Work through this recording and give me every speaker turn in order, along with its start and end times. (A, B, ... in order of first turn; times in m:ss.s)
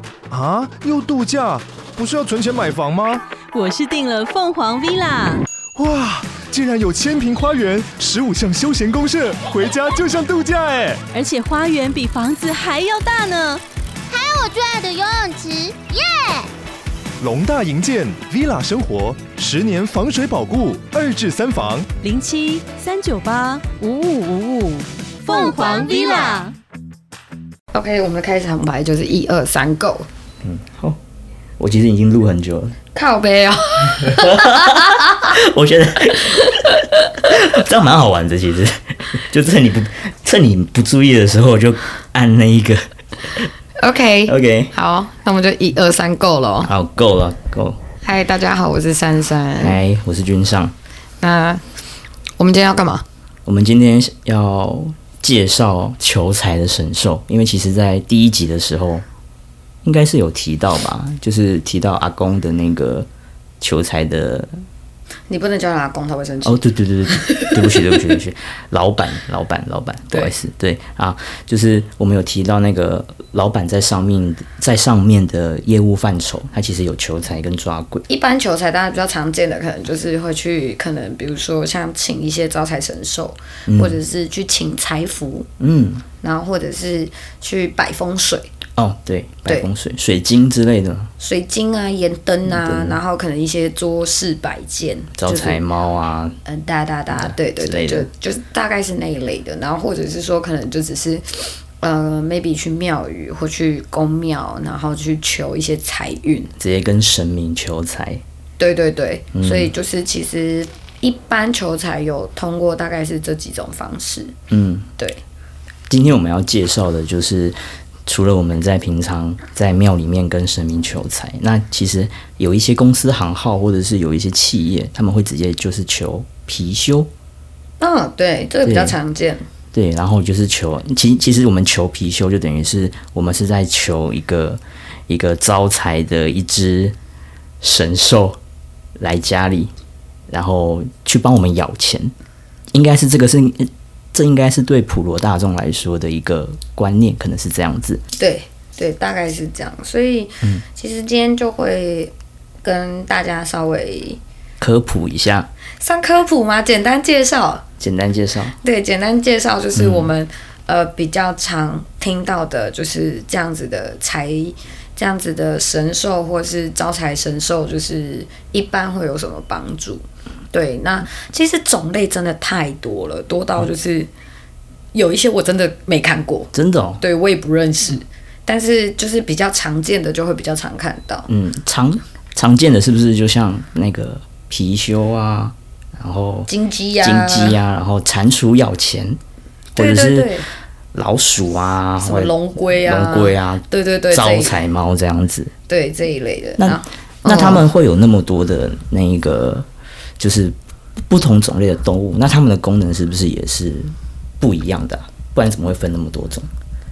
0:00.3-0:03.2 A
0:03.5-0:05.4 B
0:05.8-0:11.0 A
0:11.1-0:13.6 B
0:14.1-0:16.5 C
0:17.2-0:21.9 A
0:22.0-0:26.5 B
0:25.3-0:26.5 C
0:27.7-0:30.1 D
0:30.4-0:31.0 E
0:31.6-0:32.8 E
0:32.9-0:35.2 D
0:34.0-0:43.5 E
0:43.8-0:46.7 D
0:44.3-0:44.7 E
0:46.6-0:47.8 E
0:48.0-0:49.8 D
0:49.6-0:50.7 E
0:51.2-0:51.6 D
0:52.4-0:53.0 D
0:53.5-0:59.0 E
0:59.8-1:03.1 E
1:03.6-1:04.5 E
1:05.3-1:08.1 D
1:06.4-1:18.0 E
1:18.1-1:25.5 D
1:23.7-1:24.0 E
1:25.6-1:26.0 E
1:26.2-1:28.5 D
1:28.8-1:31.1 E
1:31.2-1:35.6 D
1:32.5-1:33.0 E
1:35.2-1:36.4 E
1:36.4-1:46.5 D
1:37.1-1:38.1 E
1:46.6-1:48.2 E
1:48.6-1:54.4 D
1:49.3-1:49.7 E
1:54.5-1:54.9 E
1:55.9-2:07.1 E
2:07.8-2:09.4 D
2:08.6-2:09.0 E
2:09.7-2:16.9 E
2:17.6-2:18.4 E
2:19.0-2:19.7 E
2:20.3-2:22.1 E
2:22.7-2:28.0 E
2:28.2-2:32.1 D
2:32.6-2:34.2 D
2:34.6-2:35.5 E
2:35.8-2:37.6 D
2:37.8-2:38.6 E
2:38.6-2:54.1 D
2:39.8-2:40.1 E
2:54.9-3:01.3 D
2:56.5-2:57.0 E
3:01.3-3:06.5 E
3:06.5-3:07.6 D
3:07.0-3:09.2 E
3:09.8-3:10.4 E
3:09.8-3:10.5 D
3:10.9-3:15.5 E
3:12.0-3:14.6 D
3:15.7-3:17.6 D
3:16.6-3:19.7 E
3:20.2-3:20.6 E
3:21.1-3:26.5 E